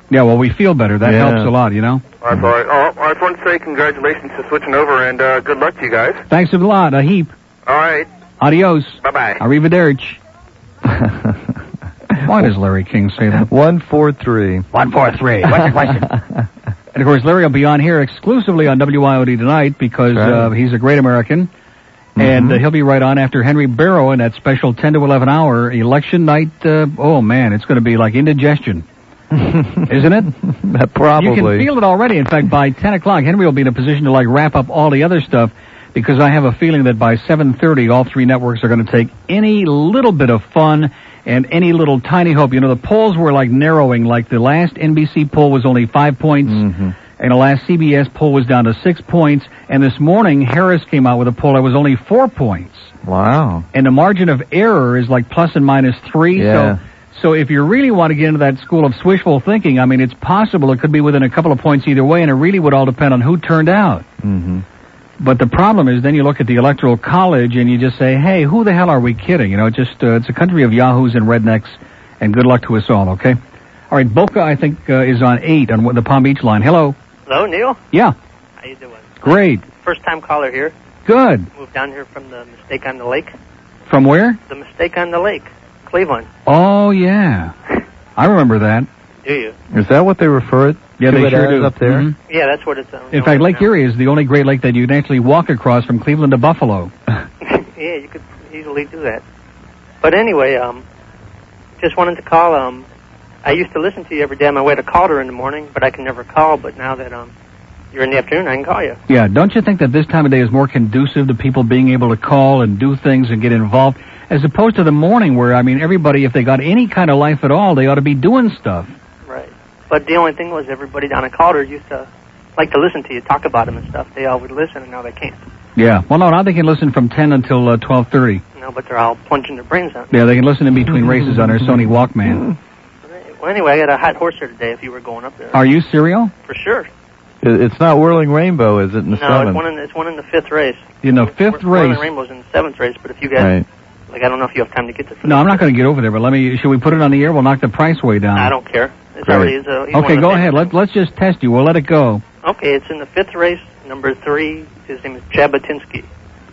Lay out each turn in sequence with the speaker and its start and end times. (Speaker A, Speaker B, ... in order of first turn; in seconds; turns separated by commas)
Speaker A: 0.1-2.0, Speaker B: 1.0-1.5, Speaker C: 2.2-6.2, Speaker A: 6.3-7.3, Speaker C: 7.7-8.1, Speaker A: 8.4-10.2, Speaker C: 9.0-9.4, Speaker B: 10.8-11.6, Speaker B: 12.1-12.5, Speaker A: 12.2-13.5, Speaker B: 13.4-14.7, Speaker A: 14.7-16.1, Speaker B: 15.4-16.4, Speaker A: 16.9-21.5, Speaker B: 20.1-20.5, Speaker B: 22.1-22.6, Speaker A: 22.2-28.8, Speaker B: 29.3-31.7, Speaker A: 29.9-30.3, Speaker A: 31.1-46.6, Speaker B: 46.5-47.0, Speaker A: 47.2-52.9, Speaker B: 53.0-53.7, Speaker A: 53.7-64.0, Speaker B: 56.3-56.8, Speaker B: 64.2-64.6, Speaker A: 65.2-73.4, Speaker A: 73.9-76.9, Speaker D: 77.3-77.8, Speaker D: 78.6-80.7, Speaker A: 79.2-79.6, Speaker A: 81.0-81.5, Speaker D: 81.5-83.3, Speaker A: 83.9-84.4, Speaker D: 84.5-86.3, Speaker A: 86.5-87.5, Speaker A: 88.2-88.9, Speaker D: 89.2-89.5, Speaker B: 89.7-92.1, Speaker A: 91.0-92.1, Speaker D: 92.3-93.7, Speaker A: 93.1-96.9, Speaker D: 97.4-99.2, Speaker D: 100.0-100.8, Speaker D: 101.8-102.8, Speaker D: 103.4-107.3, Speaker D: 107.9-109.0, Speaker A: 109.1-118.9, Speaker D: 119.3-125.4, Speaker A: 125.8-128.4, Speaker D: 128.6-130.1, Speaker A: 130.1-132.5, Speaker B: 131.1-131.7, Speaker D: 133.1-135.6, Speaker A: 135.5-136.3, Speaker D: 136.5-136.9, Speaker B: 137.4-139.6, Speaker D: 139.1-145.6, Speaker A: 141.0-142.1, Speaker B: 143.3-143.6, Speaker A: 145.2-148.5, Speaker D: 148.3-150.7, Speaker B: 149.2-149.5, Speaker A: 149.9-152.2, Speaker D: 152.4-156.1